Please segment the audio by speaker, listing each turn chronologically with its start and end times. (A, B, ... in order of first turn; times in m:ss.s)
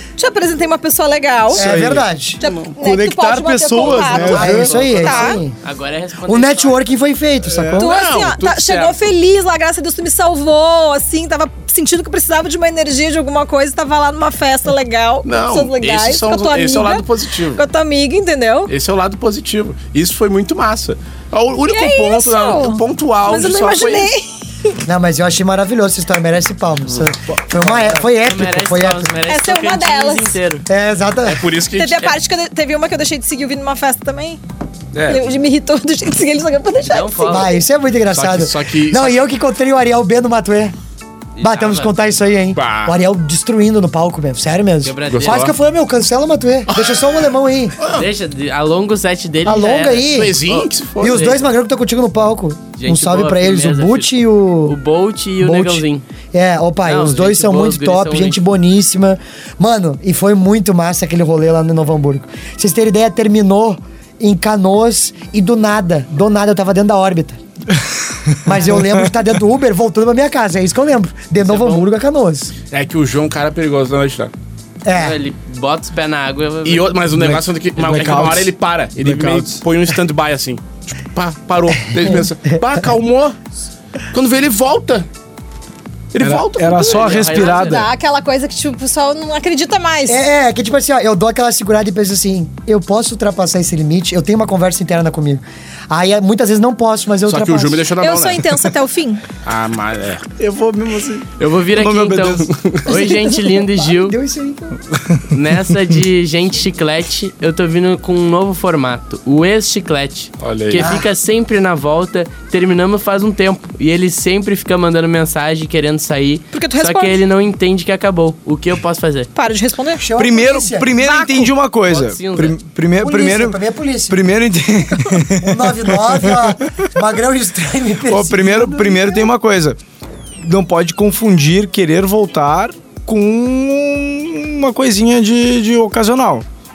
0:00.2-0:01.8 A
0:01.5-0:02.1 B
0:01.5-0:02.4 C
0:02.4-0:05.4 A
0:02.4-0:02.7 D
0:02.8-0:05.1 B
0:04.1-0:05.5 C
0:04.4-0:06.9 E
0:06.3-0:07.9 C
0:07.4-0:07.9 B
0:07.8-0:18.7 A
0:07.8-0:09.1 D
0:15.2-0:17.6 D
0:18.7-0:24.1 D
0:21.7-0:24.8 A
0:24.8-0:29.1 C
0:27.3-0:27.9 B
0:27.9-0:30.6 E
0:29.2-0:30.4 A
0:30.7-0:31.5 C
0:31.2-0:32.1 D
0:31.7-0:34.4 A
0:34.9-0:35.2 D
0:35.1-0:37.5 A
0:36.8-0:37.6 E
0:37.2-0:40.7 C
0:38.1-0:39.2 D
0:41.4-0:42.0 E
0:41.4-0:47.7 C
0:42.5-0:43.0 D
0:44.8-0:45.5 E
0:45.1-0:45.5 D
0:46.7-0:47.2 D
0:47.8-0:48.1 D
0:47.9-0:51.4 E
0:49.4-0:50.4 C
0:50.1-0:51.3 D
0:51.0-0:54.8 C
0:52.8-0:56.0 E
0:55.4-1:07.4 C
0:56.8-0:58.4 E
1:08.3-1:09.1 B
1:08.4-1:12.5 C
1:11.4-1:11.9 E
1:12.7-1:14.3 D
1:14.8-1:15.2 C
1:14.9-1:17.0 E
1:16.6-1:23.4 D
1:17.1-1:19.6 B
1:22.0-1:22.2 C
1:24.1-1:25.1 D
1:26.1-1:27.4 D
1:26.2-1:27.9 B
1:26.8-1:27.8 E
1:27.1-1:30.2 A
1:30.1-1:37.9 C
1:37.2-1:38.7 D
1:38.0-1:39.2 A
1:39.4-1:40.2 D
1:40.4-1:42.5 B
1:41.4-1:44.2 E
1:42.5-1:42.8 D
1:43.0-1:44.8 C
1:45.3-1:59.3 E
1:50.4-1:50.9 D
1:50.8-1:51.1 C
1:56.5-1:57.2 A
1:59.3-2:00.0 A
2:00.0-2:00.9 C
2:00.1-2:06.5 B
2:01.0-2:01.5 A
2:01.9-2:02.6 E
2:03.0-2:04.2 C
2:05.3-2:09.2 C
2:08.1-2:09.8 B
2:10.4-2:16.4 B